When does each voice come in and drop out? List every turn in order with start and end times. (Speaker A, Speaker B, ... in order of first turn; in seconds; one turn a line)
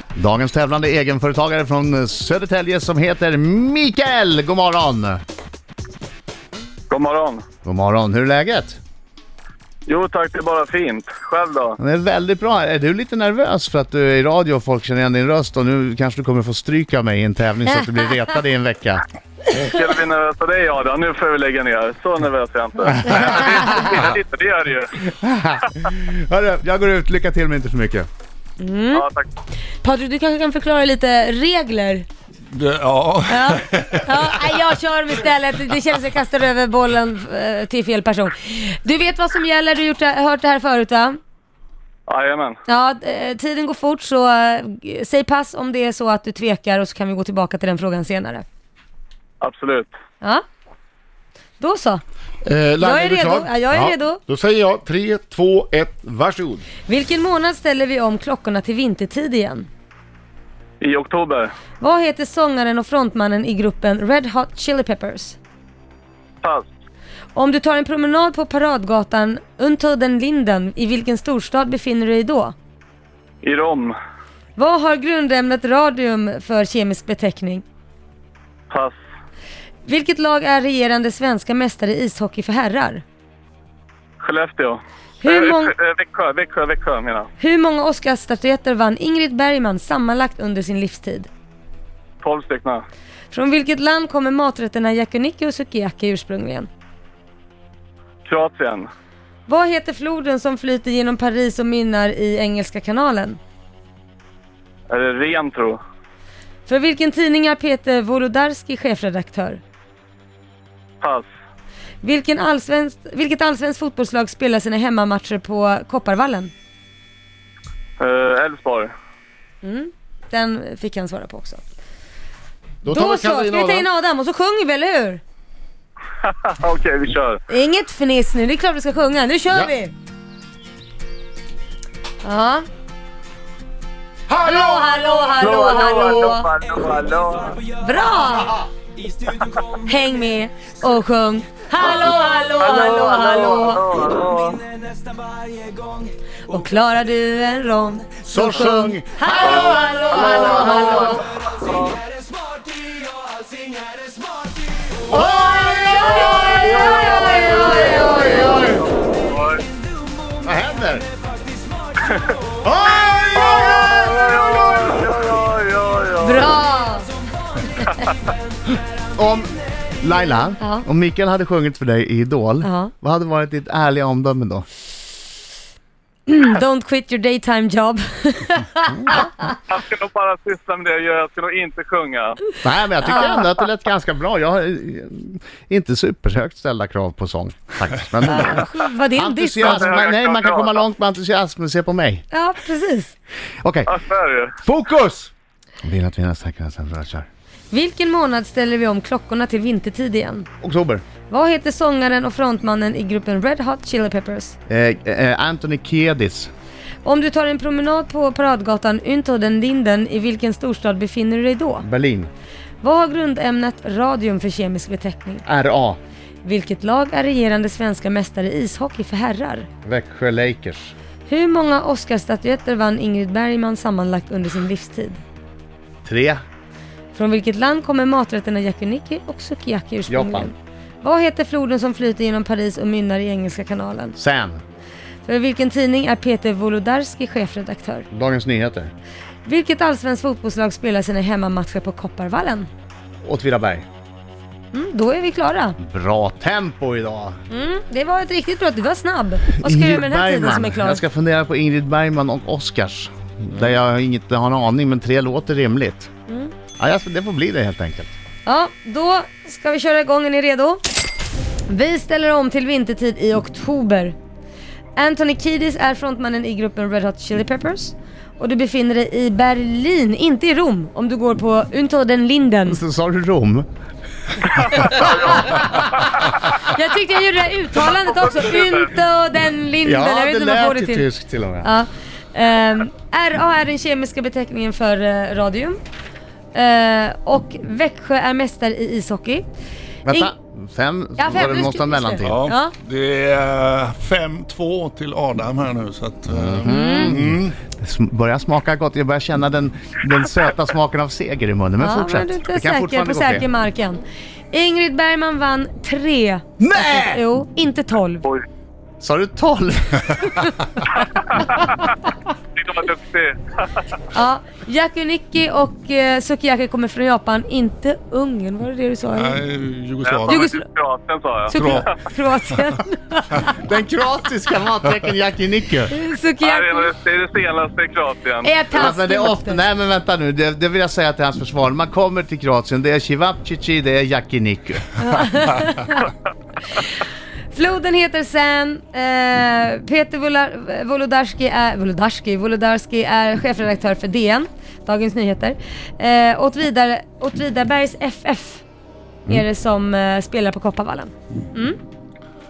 Speaker A: 0.2-5.2
Speaker B: 6.9-7.4
Speaker A: 7.6-8.8
Speaker B: 9.8-11.8
Speaker A: 11.8-19.0
Speaker B: 19.5-25.0
Speaker A: 23.1-23.9
Speaker A: 25.1-28.1
Speaker C: 28.6-29.0
Speaker B: 28.9-29.3
Speaker C: 29.8-32.0
Speaker D: 32.5-34.3
Speaker C: 33.3-41.2
Speaker B: 42.1-42.6
Speaker C: 42.7-48.4
Speaker B: 49.4-49.9
Speaker C: 51.6-52.0
Speaker E: 52.4-56.6
Speaker C: 52.8-54.2
Speaker C: 56.9-59.7
Speaker B: 60.8-61.5
Speaker C: 61.8-65.4
Speaker C: 67.3-72.5
Speaker B: 73.4-74.0
Speaker C: 74.5-77.6
Speaker B: 78.7-78.9
Speaker C: 79.8-83.0
Speaker B: 84.2-87.3
Speaker C: 85.2-85.7
Speaker C: 87.4-91.3
Speaker B: 92.2-92.8
Speaker C: 93.3-96.7
Speaker B: 98.2-98.9
Speaker C: 99.5-103.4
Speaker B: 104.9-105.8
Speaker C: 106.7-109.6
Speaker B: 111.0-111.3
Speaker C: 112.0-116.5
Speaker B: 118.0-118.9
Speaker C: 119.6-121.6
Speaker E: 122.8-123.8
Speaker C: 122.8-125.2
Speaker B: 126.2-127.4
Speaker C: 127.5-129.9
Speaker C: 132.2-132.6
Speaker C: 134.3-136.5
Speaker B: 135.4-137.6
Speaker C: 137.7-138.6
Speaker C: 139.7-143.8
Speaker B: 141.8-144.7
Speaker C: 146.5-151.2
Speaker A: 148.2-151.2
Speaker B: 149.4-152.0
Speaker A: 155.1-158.8
Speaker C: 155.5-158.6
Speaker B: 156.1-157.9
Speaker B: 158.8-159.6
Speaker A: 160.4-161.1
Speaker B: 162.0-162.3
Speaker A: 162.6-165.0
Speaker B: 163.3-166.5
Speaker C: 166.2-167.1
Speaker A: 169.1-174.7
Speaker C: 170.6-170.8
Speaker C: 172.6-172.9
Speaker C: 176.3-179.5
Speaker A: 178.9-179.2
Speaker B: 179.7-182.4
Speaker A: 182.6-192.2
Speaker C: 183.0-183.5
Speaker C: 188.2-189.9
Speaker B: 189.6-190.8
Speaker C: 192.3-193.1
Speaker A: 193.6-193.9
Speaker B: 193.9-194.5
Speaker A: 194.6-195.3
Speaker A: 195.8-197.3
Speaker C: 197.7-200.5
Speaker A: 200.6-201.0
Speaker C: 201.3-204.6
Speaker A: 204.7-206.5
Speaker C: 207.0-211.8
Speaker A: 211.8-212.3
Speaker C: 212.8-215.4
Speaker A: 215.5-216.0
Speaker C: 216.4-219.7
Speaker A: 219.8-220.9
Speaker C: 221.3-225.2
Speaker A: 226.0-226.4
Speaker C: 227.1-234.2
Speaker A: 230.1-230.5
Speaker A: 234.2-234.6
Speaker C: 235.2-238.1
Speaker A: 238.1-238.9
Speaker C: 239.4-242.7
Speaker A: 243.2-243.8
Speaker C: 244.7-245.8
Speaker A: 245.8-247.4
Speaker C: 247.5-251.0
Speaker A: 249.6-256.1
Speaker A: 256.8-258.1
Speaker C: 258.4-260.8
Speaker C: 261.7-264.1
Speaker C: 264.9-272.8
Speaker A: 272.7-273.6
Speaker A: 274.7-276.3
Speaker B: 274.8-275.6
Speaker C: 275.3-275.7
Speaker C: 276.4-281.1
Speaker B: 277.9-278.9
Speaker A: 279.8-281.7
Speaker C: 281.6-285.8
Speaker C: 286.5-289.4
Speaker A: 290.0-292.4
Speaker C: 290.1-290.3
Speaker C: 291.2-292.7
Speaker D: 292.2-297.5
Speaker A: 296.3-303.5
Speaker C: 296.6-297.2
Speaker C: 301.8-308.2
Speaker A: 306.6-307.2
Speaker A: 309.0-310.8
Speaker B: 312.6-313.6
Speaker C: 314.1-319.4
Speaker D: 319.1-320.5
Speaker B: 320.0-321.9
Speaker C: 320.3-320.6
Speaker C: 321.5-323.5
Speaker D: 321.5-321.9
Speaker A: 323.5-325.9
Speaker C: 325.9-326.9
Speaker B: 326.4-328.6
Speaker C: 328.4-329.6
Speaker A: 328.7-335.1
Speaker C: 335.0-336.1
Speaker C: 337.5-348.6
Speaker C: 349.3-351.8